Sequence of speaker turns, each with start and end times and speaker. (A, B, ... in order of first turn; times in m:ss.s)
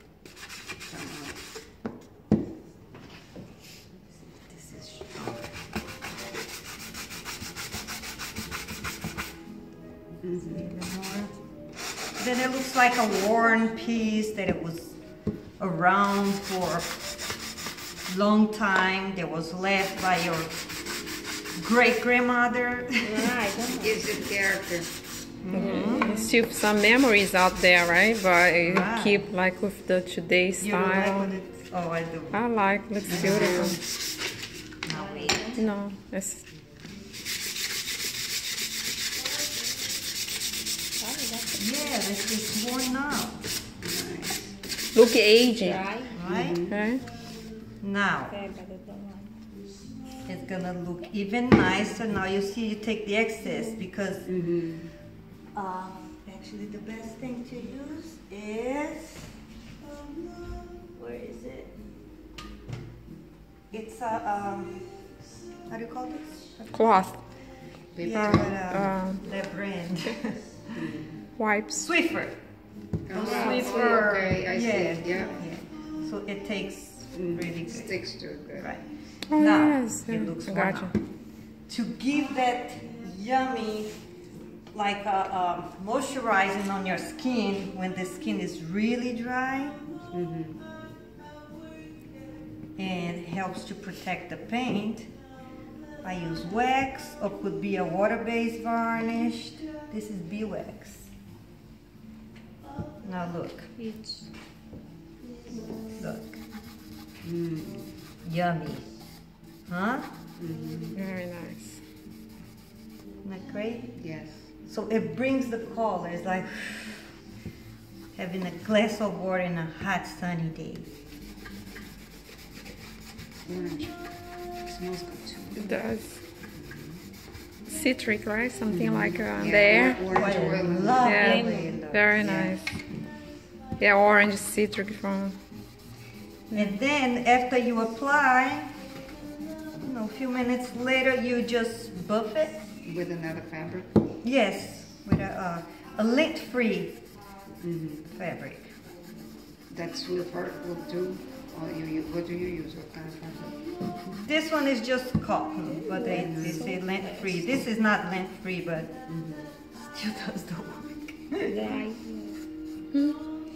0:00.9-0:01.4 A
0:04.4-0:05.5 B
0:10.2-0:10.6 A
0:10.4-0:11.3 B
0:12.2-0:15.0 B
0:15.6-0:16.9 B
0:18.1-0:20.5 B
0:21.6-0:23.4 B
0:23.0-0:24.0 C
0:23.7-0:24.9 A
0:25.4-0:26.2 B
0:25.5-0:31.3 D
0:25.6-0:26.3 C
0:28.6-0:29.2 B
0:30.6-0:33.8 B
0:32.3-0:33.8 D
0:33.0-0:33.8 A
0:34.8-0:35.6 B
0:34.9-0:35.7 C
0:35.6-0:36.4 D
0:41.0-0:41.7 C
0:41.6-0:43.4 B
0:43.8-0:44.6 A
0:44.9-0:45.9 D
0:45.5-0:46.1 C
0:46.1-0:46.7 B
0:46.2-0:46.8 A
0:46.7-0:47.0 D
0:47.8-0:48.4 B
0:48.3-0:49.3 C
0:50.2-0:54.3 B
0:54.2-0:54.9 A
0:55.5-1:01.7 B
1:03.7-1:04.9 B
1:05.6-1:06.8 B
1:06.7-1:07.2 D
1:07.9-1:08.6 A
1:08.0-1:10.5 B
1:08.0-1:09.2 D
1:10.7-1:11.2 A
1:11.4-1:11.8 D
1:11.7-1:12.4 B
1:13.0-1:15.5 A
1:13.1-1:18.0 B
1:17.1-1:18.7 A
1:18.6-1:18.8 B
1:19.3-1:20.9 D
1:19.4-1:21.0 B
1:21.7-1:23.9 B
1:24.7-1:29.8 B
1:30.1-1:30.6 A
1:32.8-1:35.1 B
1:36.0-1:41.1 B
1:43.0-1:43.7 B
1:43.8-1:44.3 C
1:45.9-1:46.4 B
1:47.2-1:48.0 A
1:48.2-1:48.9 B
1:49.7-1:50.1 B
1:50.4-1:51.0 A
1:50.9-1:51.8 D
1:53.2-1:53.9 B
1:53.9-1:54.4 A
1:54.6-1:57.2 B
1:58.1-2:00.9 B
2:03.4-2:05.8 A
2:05.6-2:06.2 D
2:06.5-2:07.0 A
2:07.7-2:10.1 D
2:08.7-2:11.2 A
2:10.1-2:12.6 B
2:11.0-2:12.6 D
2:11.1-2:11.8 C
2:13.8-2:15.4 D
2:16.5-2:16.8 D
2:16.5-2:18.7 B
2:19.8-2:22.6 B
2:22.8-2:23.9 A
2:24.2-2:26.9 B
2:27.6-2:28.1 A
2:28.1-2:28.7 B
2:29.7-2:33.7 A
2:34.1-2:38.9 B
2:35.8-2:37.3 C
2:36.1-2:36.7 A
2:39.1-2:39.5 A
2:39.9-2:41.7 B
2:41.4-2:42.3 C